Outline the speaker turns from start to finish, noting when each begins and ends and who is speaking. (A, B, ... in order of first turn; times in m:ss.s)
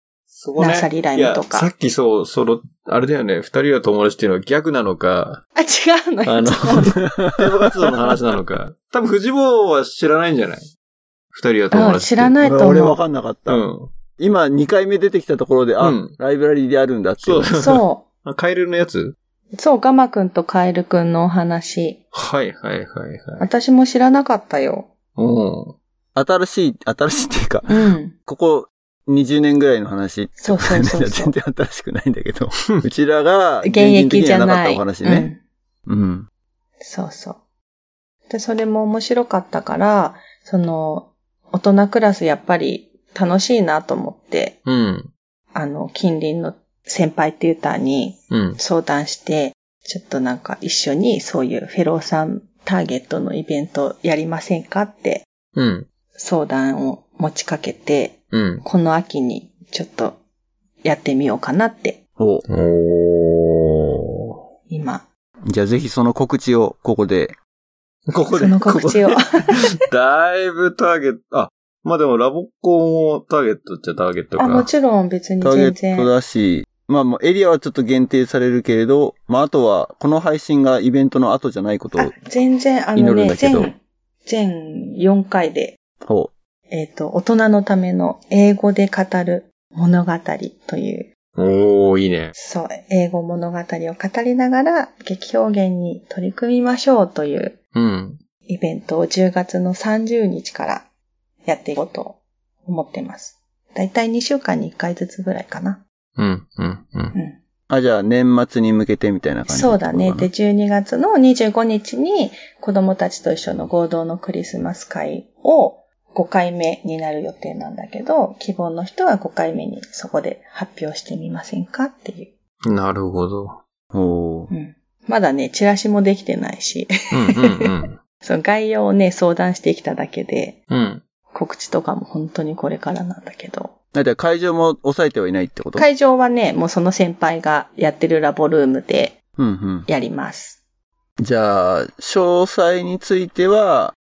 0:00.3-0:05.4 A
0:00.6-0:01.7 B
0:05.6-0:07.0 B
0:06.2-0:10.7 A
0:07.0-0:07.4 C
0:11.3-0:12.4 A
0:11.7-0:13.0 B
0:12.4-0:13.6 C
0:13.5-0:14.0 A
0:14.2-0:17.5 C
0:15.8-0:16.1 A
0:17.2-0:19.2 A
0:17.5-0:18.0 B
0:19.6-0:22.0 B
0:22.1-0:23.5 A
0:23.4-0:24.9 B
0:25.2-0:25.8 A
0:26.1-0:35.3 C
0:27.7-0:28.1 B
0:30.4-0:31.3 B
0:33.6-0:35.4 B
0:35.9-0:36.3 C
0:36.8-0:37.4 B
0:38.3-0:44.6 B
0:44.6-0:45.1 A
0:45.5-0:55.2 B
0:48.3-0:48.6 A
0:55.5-0:55.9 A
0:56.1-1:00.2 B
0:58.3-0:58.6 A
1:00.8-1:02.0 B
1:02.2-1:02.4 C
1:02.5-1:04.4 A
1:04.7-1:05.0 B
1:05.5-1:07.4 C
1:08.1-1:14.7 A
1:08.3-1:09.7 B
1:14.4-1:16.1 B
1:15.4-1:22.2 C
1:22.0-1:25.8 B
1:22.9-1:23.7 C
1:26.0-1:26.3 C
1:26.7-1:31.1 B
1:31.4-1:32.3 A
1:32.3-1:37.6 B
1:37.7-1:38.2 A
1:38.4-1:40.8 B
1:41.4-1:45.8 B
1:46.2-1:47.2 A
1:47.7-1:50.3 C
1:49.5-2:02.3 B
2:02.7-2:03.6 A
2:03.9-2:04.5 C
2:04.5-2:07.7 B
2:07.1-2:07.9 A
2:08.2-2:10.6 B
2:10.7-2:11.0 A
2:11.3-2:13.7 B
2:13.9-2:15.8 C
2:15.8-2:19.2 B
2:19.4-2:19.9 C
2:19.9-2:20.6 B
2:21.2-2:24.0 C